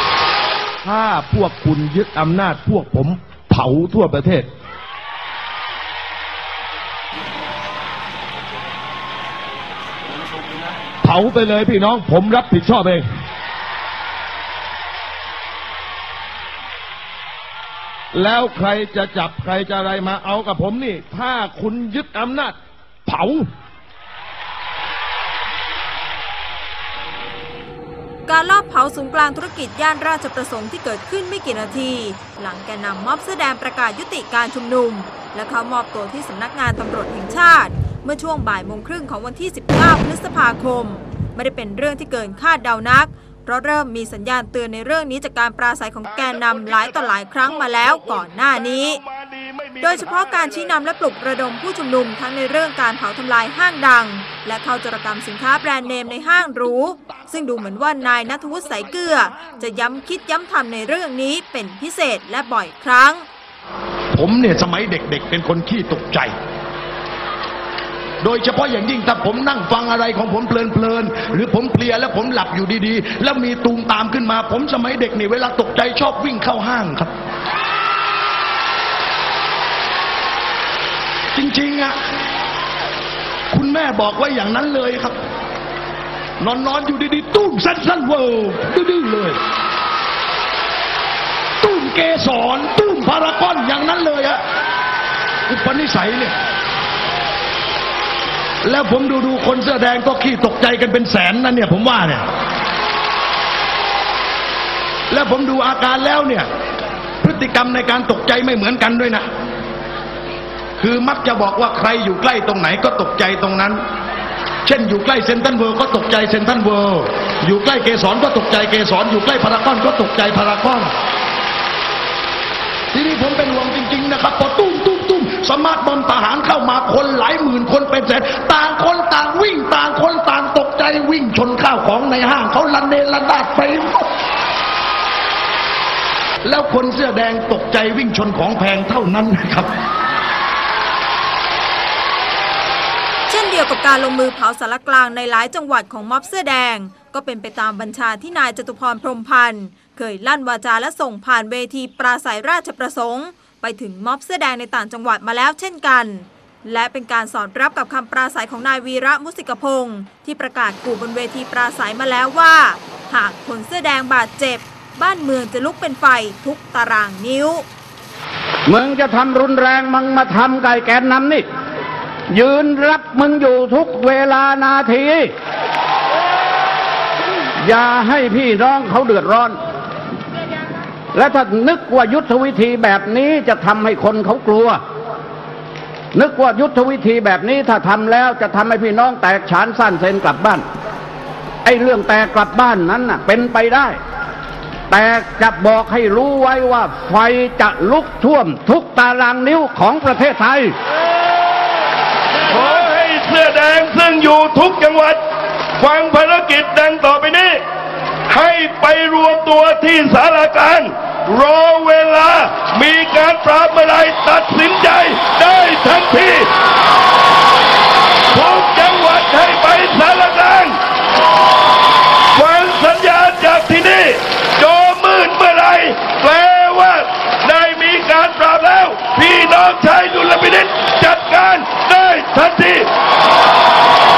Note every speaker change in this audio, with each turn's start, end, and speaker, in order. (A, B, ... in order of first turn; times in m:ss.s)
0:00.8-0:04.5 A
0:01.6-0:02.0 B
0:11.0-0:13.1 A
0:18.1-0:22.6 A
0:23.1-0:23.5 A
0:28.3-0:49.0 C
0:46.2-0:46.8 D
0:47.5-0:50.4 D
0:49.8-1:03.2 C
1:04.1-1:06.3 B
1:08.2-1:17.1 B
1:21.4-1:22.0 B
1:23.5-1:25.2 B
1:26.4-1:29.4 B
1:31.6-1:34.4 B
1:35.5-1:36.4 B
1:38.6-1:42.3 B
1:45.1-1:46.5 B
1:47.2-1:49.3 B
1:50.8-1:53.8 B
1:54.6-2:00.9 B
2:02.9-2:14.1 B
2:16.4-2:19.7 B
2:23.3-2:47.6 C
2:48.7-2:51.4 E
2:52.3-2:55.3 E
2:57.6-2:59.6 E
3:01.2-3:04.8 E
3:06.2-3:10.6 E
3:11.6-3:14.0 E
3:14.9-3:20.7 E
3:22.5-3:25.2 D
3:25.8-3:27.6 D
3:28.3-3:36.5 D
3:38.3-3:40.8 D
3:42.3-3:52.9 D